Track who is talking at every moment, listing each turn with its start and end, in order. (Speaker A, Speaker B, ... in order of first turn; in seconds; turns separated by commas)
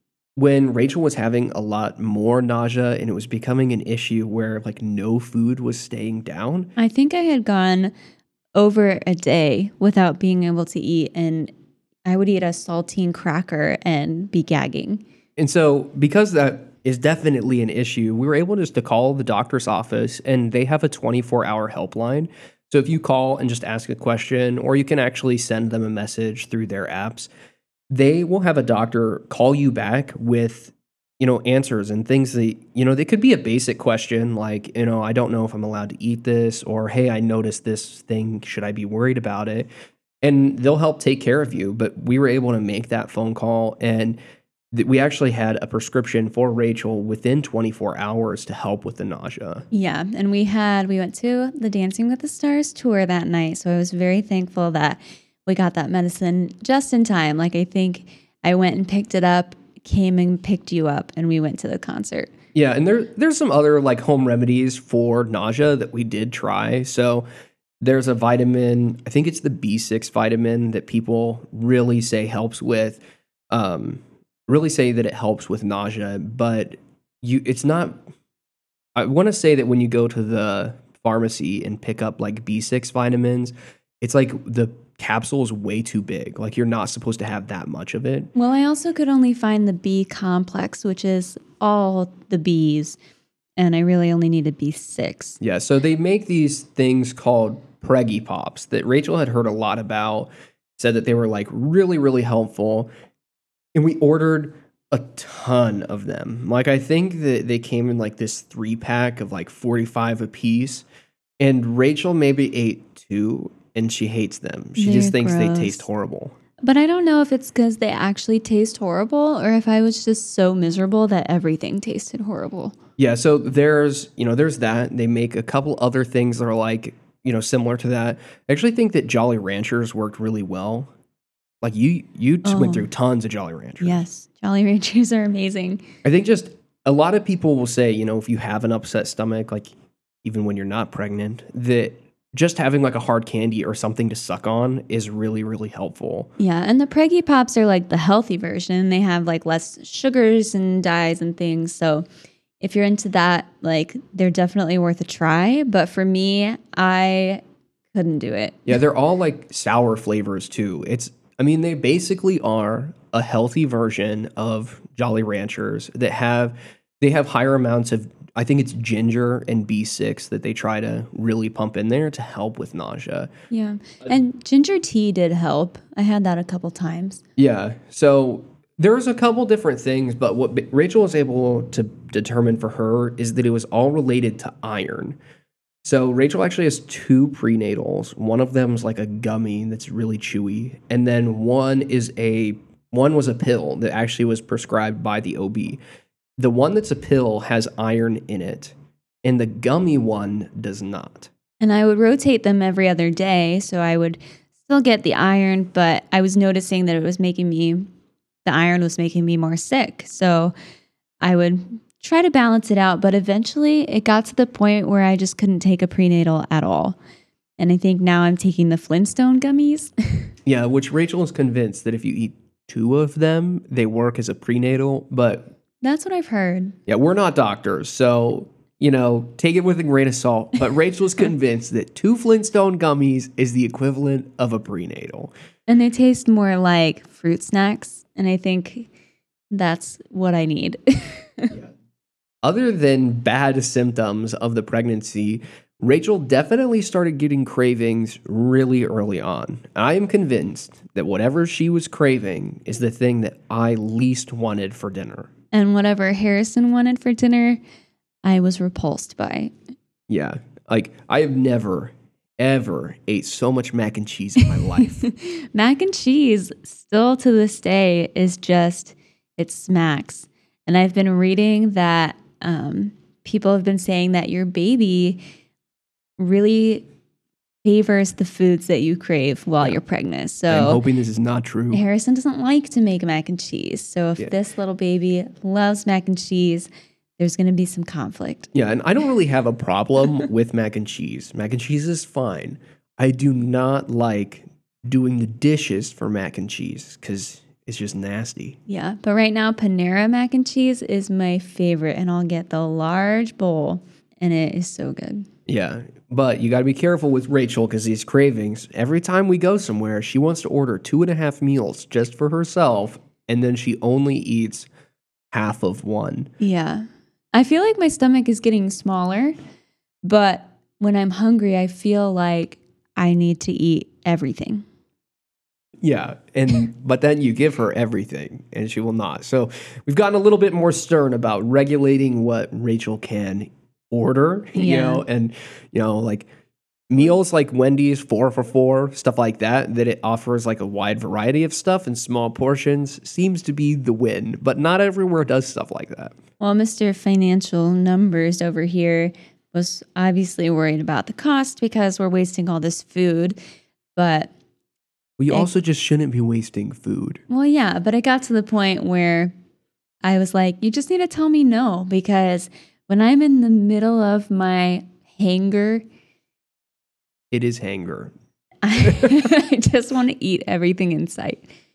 Speaker A: 0.4-6.7, Speaker B: 6.8-7.9, Speaker B: 8.6-11.5, Speaker B: 12.1-15.0, Speaker A: 15.4-27.3, Speaker A: 27.9-39.7, Speaker A: 40.2-44.2, Speaker A: 44.7-49.7, Speaker B: 49.7-62.3, Speaker A: 62.5-67.2, Speaker A: 67.8-78.0, Speaker A: 79.0-88.3, Speaker B: 88.3-93.0, Speaker B: 93.6-95.4, Speaker A: 95.4-102.9, Speaker A: 103.8-110.8, Speaker A: 111.4-116.3, Speaker B: 114.8-115.8, Speaker B: 116.6-122.8, Speaker A: 123.0-130.9, Speaker A: 131.6-134.0, Speaker B: 132.4-132.9, Speaker B: 133.8-135.8, Speaker A: 136.0-139.7, Speaker A: 140.2-146.3, Speaker B: 146.4-152.1, Speaker B: 152.6-158.7, Speaker A: 158.7-173.3, Speaker B: 173.5-177.2, Speaker A: 177.4-185.2, Speaker A: 185.8-195.8, Speaker A: 196.4-201.3, Speaker B: 201.6-207.9, Speaker B: 208.4-210.5, Speaker B: 211.2-217.0, Speaker B: 217.6-220.3, Speaker A: 220.5-225.5, Speaker B: 225.8-226.8, Speaker A: 226.9-235.3, Speaker B: 235.7-238.9, Speaker B: 239.5-241.5, Speaker A: 242.4-255.3, Speaker B: 255.5-257.6, Speaker B: 258.2-259.6, Speaker A: 260.1-265.0, Speaker B: 264.5-275.2, Speaker B: 276.2-276.8, Speaker B: 277.6-280.8, Speaker A: 280.5-281.8, Speaker B: 281.7-288.5, Speaker A: 288.5-298.6, Speaker B: 298.7-305.3, Speaker A: 305.5-314.7, Speaker A: 315.3-316.3, Speaker B: 316.4-319.4, Speaker B: 320.0-324.7, Speaker A: 325.8-336.3, Speaker B: 334.6-335.0, Speaker A: 336.9-346.2, Speaker B: 346.4-353.4, Speaker B: 354.0-354.3, Speaker A: 355.2-357.2, Speaker B: 357.3-359.3, Speaker B: 360.0-365.9, Speaker A: 367.3-368.1, Speaker B: 368.6-371.5, Speaker A: 368.8-369.2